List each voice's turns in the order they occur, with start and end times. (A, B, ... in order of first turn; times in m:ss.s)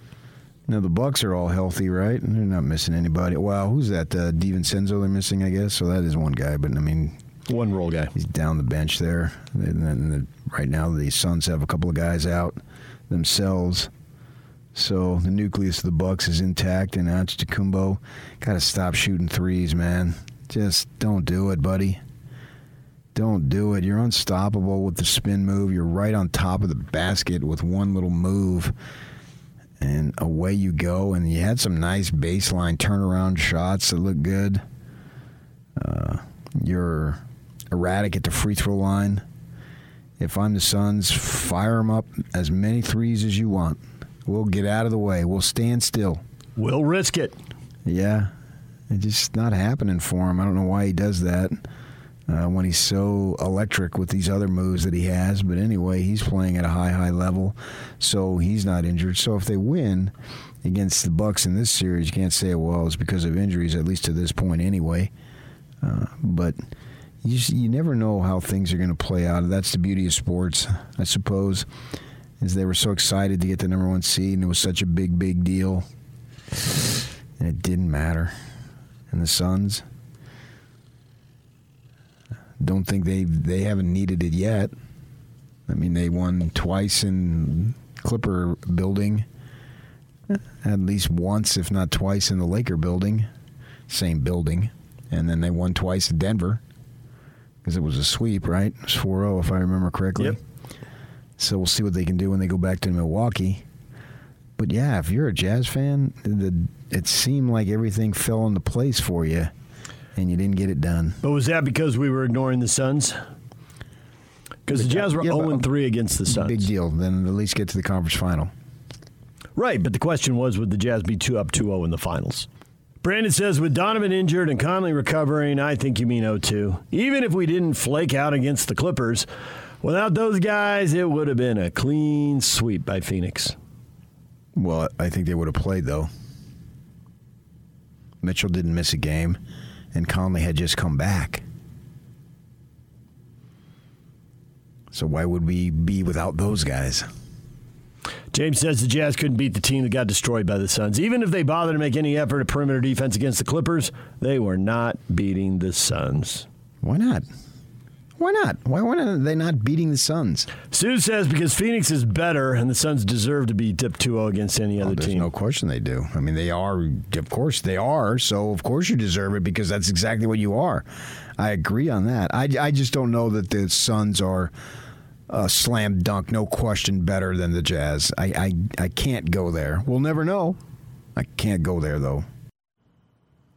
0:00.7-0:07.2 A
0:07.5-0:08.1 B
0:08.1-0:13.9 A
0:14.7-0:22.0 A
0:23.1-0:28.7 A
0:29.8-0:34.6 A
0:35.8-0:39.2 A
0:40.2-0:46.2 A
0:46.6-0:47.4 B
0:47.8-0:48.3 A
0:48.9-0:51.6 A
0:52.3-1:00.1 A
1:00.6-1:05.1 A
1:05.8-1:06.6 A
1:07.2-1:11.7 A
1:12.4-1:15.8 A
1:17.4-1:18.3 A
1:19.1-1:19.8 A
1:22.6-1:24.7 A
1:25.7-1:29.2 A
1:30.3-1:33.3 A
1:33.9-1:36.6 A
1:37.6-1:40.4 A
1:41.4-1:43.6 A
1:44.6-1:49.5 A
1:50.1-1:51.2 A
1:51.2-1:53.2 B
1:54.6-1:56.6 B
1:54.7-1:55.7 A
1:56.3-1:58.5 A
1:59.6-2:02.5 B
2:03.0-2:09.3 B
2:09.8-2:13.5 B
2:14.5-2:16.1 A
2:18.2-2:19.4 A
2:19.9-2:21.4 A
2:24.9-2:27.1 A
2:28.3-2:36.4 B
2:36.8-2:37.2 A
2:38.2-2:40.5 A
2:40.6-2:45.3 B
2:44.8-2:50.8 A
2:51.4-2:54.5 A
2:55.3-3:00.6 A
3:01.1-3:02.2 A